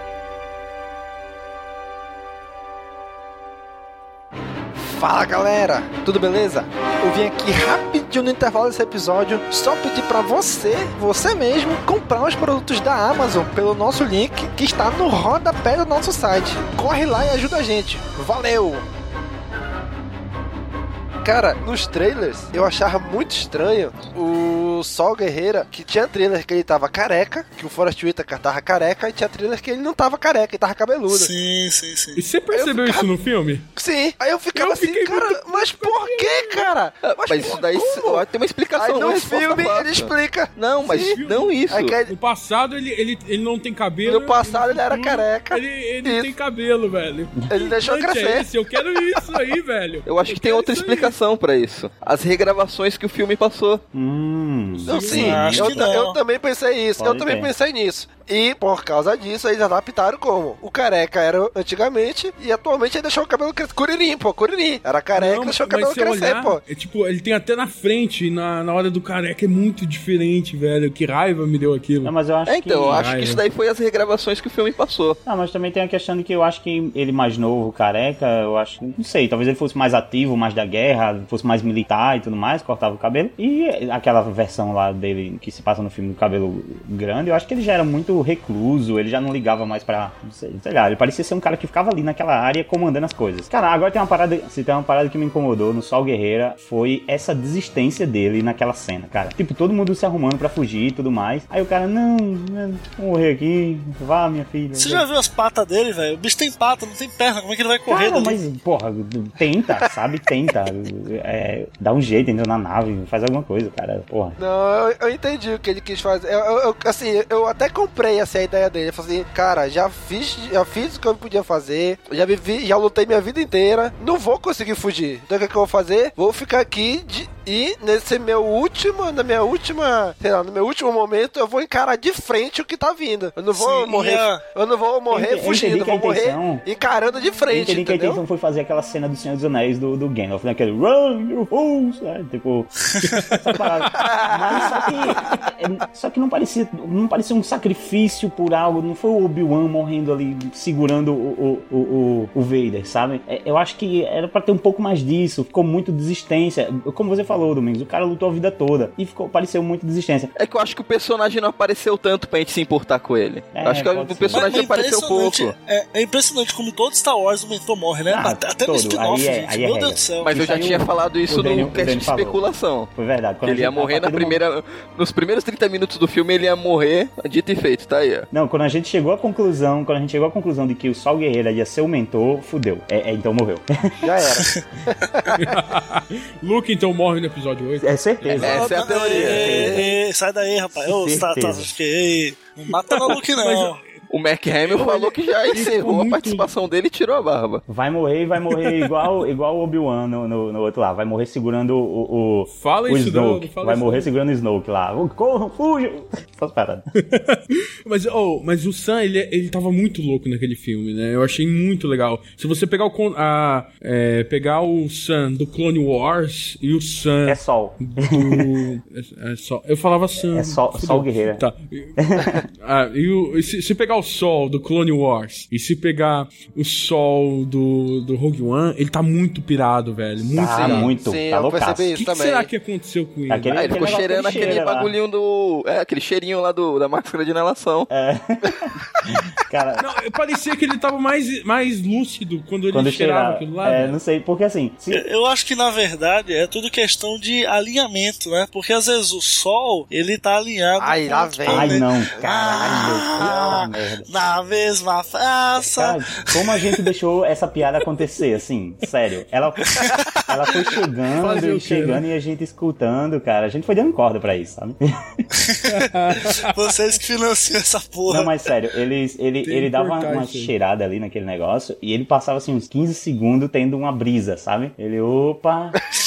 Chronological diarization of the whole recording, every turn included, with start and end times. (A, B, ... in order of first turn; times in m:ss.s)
0:04.8-0:18.8 A
0:21.2-0:31.3 A
0:31.1-0:32.2 B
0:32.2-0:33.6 C
0:32.5-0:33.1 A
0:33.8-0:38.2 A
0:34.5-0:36.7 C
0:37.0-0:42.0 D
0:38.8-0:41.2 A
0:41.0-0:51.1 C
0:41.7-0:42.1 A
0:44.0-0:46.3 A
0:47.5-0:48.5 A
0:50.1-0:53.8 D
0:53.9-0:55.8 E
0:54.8-0:55.6 C
0:54.9-1:06.6 A
0:55.2-0:56.2 B
0:57.0-0:57.5 E
1:05.1-1:12.1 C
1:12.0-1:13.1 E
1:12.4-1:15.2 D
1:12.9-1:13.4 C
1:15.3-1:45.1 E
1:44.8-1:48.4 B
1:47.9-1:54.4 E
1:54.4-2:18.2 A
2:13.5-2:14.4 B
2:15.1-2:16.6 E
2:17.5-2:22.7 E
2:23.0-2:23.4 C
2:23.3-2:40.3 E
2:23.9-2:24.9 A
2:40.4-2:45.5 D
2:43.5-2:44.6 E
2:44.3-2:50.6 B
2:48.1-2:54.4 E
2:50.2-2:52.9 D
2:53.4-2:58.3 D
2:58.3-3:04.1 E
3:04.0-3:05.6 A
3:05.4-3:08.4 C
3:07.8-3:08.7 E
3:08.4-3:09.7 D
3:08.4-3:13.8 B
3:08.9-3:09.9 A
3:09.2-3:09.9 E
3:10.8-3:11.7 E
3:12.8-3:13.9 C
3:14.1-3:17.6 D
3:14.6-3:16.6 C
3:17.7-3:26.9 E
3:18.5-3:18.9 C
3:22.5-3:24.1 C
3:27.0-3:42.0 C
3:37.3-3:38.5 E
3:40.3-3:41.4 E
3:42.0-3:42.4 E
3:42.6-3:50.9 C
3:50.3-3:51.9 E
3:50.4-3:52.5 A
3:52.0-3:54.7 C
3:53.3-3:54.9 E
3:53.5-3:57.9 D
3:57.9-3:59.9 E
3:59.8-4:04.0 C
4:02.7-4:05.0 E
4:04.9-4:16.8 B
4:10.8-4:11.8 A
4:11.4-4:14.1 E
4:12.5-4:12.9 A
4:15.7-4:24.8 E
4:19.6-4:20.5 B
4:21.2-4:22.0 C
4:25.4-4:25.6 B
4:25.7-4:26.5 C
4:26.3-4:28.3 B
4:28.1-4:35.8 E
4:29.4-4:30.5 C